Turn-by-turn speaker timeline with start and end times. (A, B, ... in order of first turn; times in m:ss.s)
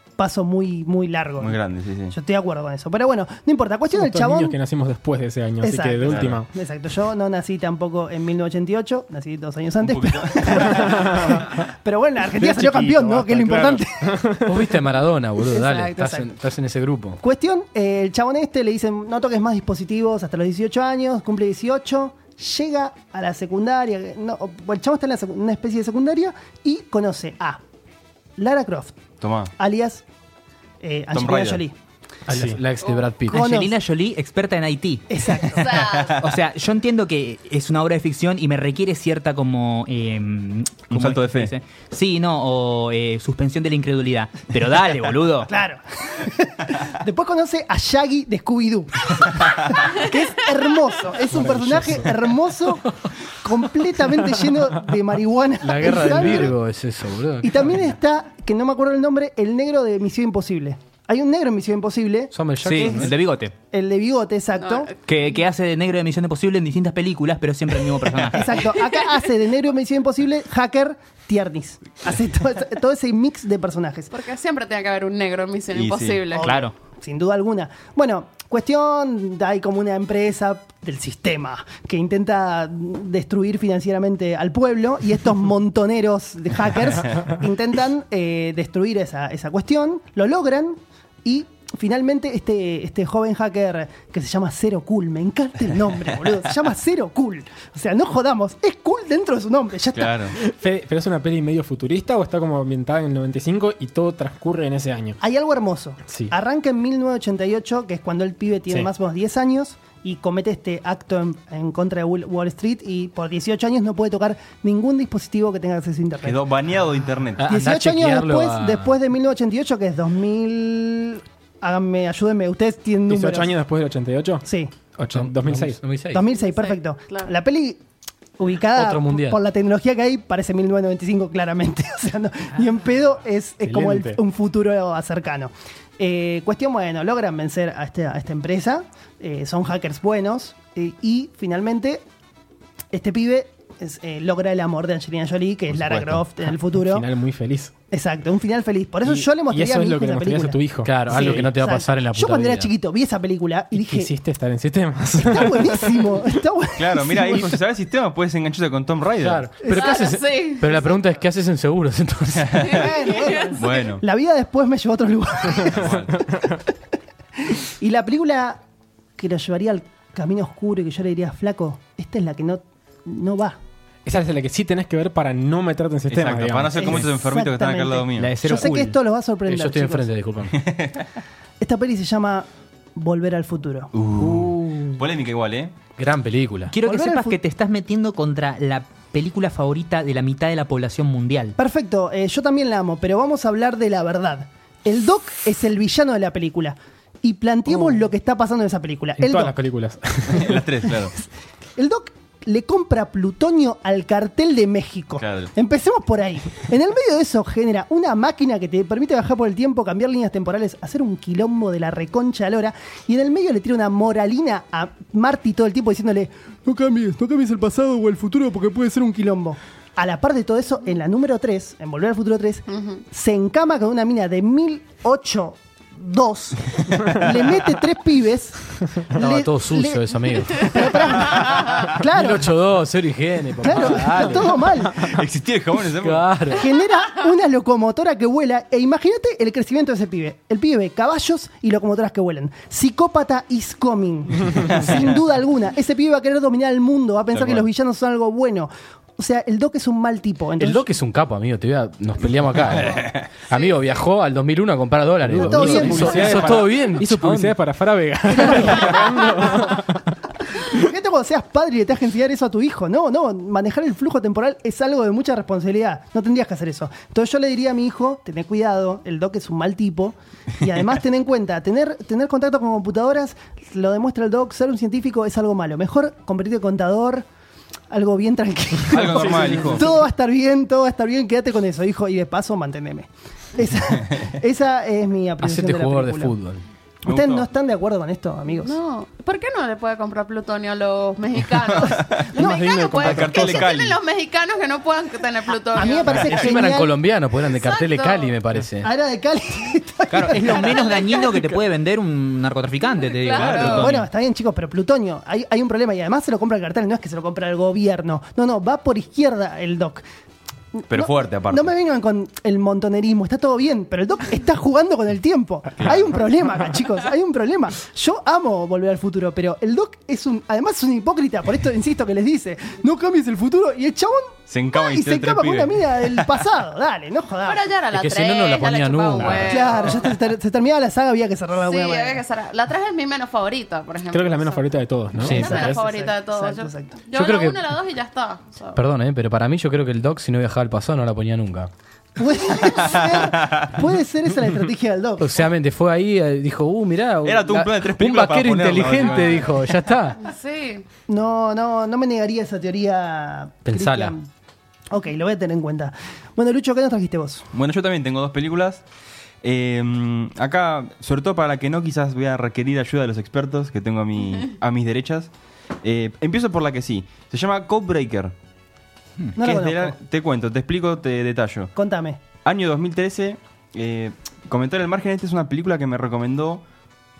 0:00.2-0:01.6 A
0:01.4-0:02.2 B
0:02.1-0:04.6 A
0:03.9-0:06.5 C
0:05.6-0:14.2 A
0:06.1-0:06.4 B
0:09.8-0:11.1 B
0:10.8-0:11.4 C
0:12.3-0:14.8 C
0:14.4-0:17.2 D
0:15.5-0:16.3 A
0:17.2-0:27.6 A
0:28.4-0:29.0 A
0:29.2-0:29.5 B
0:29.6-0:30.0 A
0:30.8-0:31.7 A
0:31.1-0:31.6 B
0:32.3-0:32.6 C
0:32.3-0:33.5 D
0:32.8-0:33.1 E
0:33.3-0:33.7 A
0:33.3-0:35.4 F
0:35.1-0:35.7 A
0:35.5-0:36.2 E
0:36.2-0:45.5 F
0:40.9-0:41.5 B
0:45.5-0:56.6 A
0:51.3-0:52.2 C
0:55.6-0:57.7 D
0:57.4-1:03.1 A
1:02.3-1:03.1 D
1:02.6-1:03.5 F
1:03.7-1:04.9 A
1:04.6-1:05.0 E
1:05.1-1:08.7 F
1:08.3-1:14.1 A
1:14.1-1:16.6 E
1:15.7-1:16.2 B
1:16.4-1:40.2 A
1:16.4-1:16.7 F
1:39.9-1:40.4 B
1:40.3-1:45.2 C
1:45.2-1:56.4 A
1:56.2-1:57.5 B
1:57.4-1:58.9 D
1:57.5-2:03.6 A
2:03.1-2:05.8 C
2:04.4-2:04.7 A
2:05.1-2:06.2 D
2:06.1-2:07.8 A
2:06.4-2:07.3 E
2:08.4-2:22.0 A
2:08.7-2:09.4 D
2:13.6-2:14.2 C
2:22.9-2:27.1 A
2:25.9-2:27.7 C
2:27.9-2:34.1 A
2:29.0-2:31.5 C
2:30.8-2:32.7 D
2:33.7-2:36.2 C
2:35.2-2:37.6 A
2:36.8-2:39.5 B
2:39.2-2:42.8 D
2:39.6-2:39.9 A
2:39.7-2:40.8 E
2:42.4-2:42.8 B
2:42.7-2:43.7 E
2:42.7-2:45.8 A
2:43.6-2:44.0 B
2:45.6-2:46.3 B
2:45.8-2:46.1 C
2:47.4-2:48.6 A
2:49.2-2:53.6 A
2:54.0-2:57.0 C
2:56.1-2:58.4 B
2:56.8-3:00.1 A
2:58.2-2:59.0 F
2:59.5-3:00.6 D
3:00.5-3:01.1 B
3:01.6-3:03.9 A
3:03.9-3:05.7 B
3:04.2-3:04.9 D
3:06.0-3:06.7 D
3:06.7-3:11.6 F
3:06.8-3:07.4 A
3:11.6-3:19.6 A
3:19.2-3:20.7 C
3:20.3-3:21.1 B
3:21.8-3:52.5 A
3:25.2-3:25.5 B
3:42.7-3:43.0 E
3:47.0-3:47.4 B
3:49.1-3:51.1 D
3:51.4-3:51.7 E
3:51.8-3:54.7 D
3:53.6-3:55.2 A
3:54.9-3:56.4 B
3:56.0-3:56.7 D
3:56.5-4:10.9 A
4:04.6-4:05.2 B
4:07.3-4:07.6 B
4:10.6-4:17.5 D
4:12.7-4:13.4 B
4:15.2-4:20.2 C
4:15.3-4:16.5 A
4:18.3-4:19.7 A
4:20.6-4:37.3 A
4:37.9-4:46.4 A
4:38.9-4:39.9 B
4:45.4-4:46.6 D
4:47.0-4:48.8 A
4:47.1-4:47.5 B
4:48.6-4:56.4 E
4:51.6-4:52.3 B
4:51.8-4:52.6 A
4:52.4-4:53.7 C
4:53.0-4:54.0 B
4:55.7-4:57.0 A
4:56.1-4:58.9 D
4:56.2-4:56.5 B
4:57.4-4:58.4 E
4:58.8-5:01.3 A
5:00.1-5:04.0 F
5:00.7-5:01.2 E
5:03.0-5:03.9 E
5:03.3-5:04.0 B
5:03.7-5:10.0 A
5:10.7-5:27.7 A
5:10.9-5:11.7 B
5:15.8-5:16.1 B
5:24.5-5:26.4 B
5:27.4-5:30.1 E
5:27.9-5:29.7 D
5:29.4-5:32.2 A
5:31.6-5:38.8 E
5:34.1-5:35.7 C
5:35.2-5:35.7 D
5:35.3-5:37.0 A
5:37.1-5:37.6 D
5:38.8-5:41.7 D
5:42.2-5:45.3 A
5:42.6-5:43.8 B
5:45.2-5:50.2 D
5:47.2-5:49.5 B
5:50.2-5:50.8 E
5:51.1-5:54.3 A
5:53.7-5:54.2 D
5:54.9-5:57.5 A
5:57.5-5:58.8 B
5:59.4-6:05.3 B
6:05.8-6:08.3 B
6:09.4-6:10.0 A
6:09.4-6:11.7 B
6:11.8-6:12.2 A
6:12.4-6:16.6 B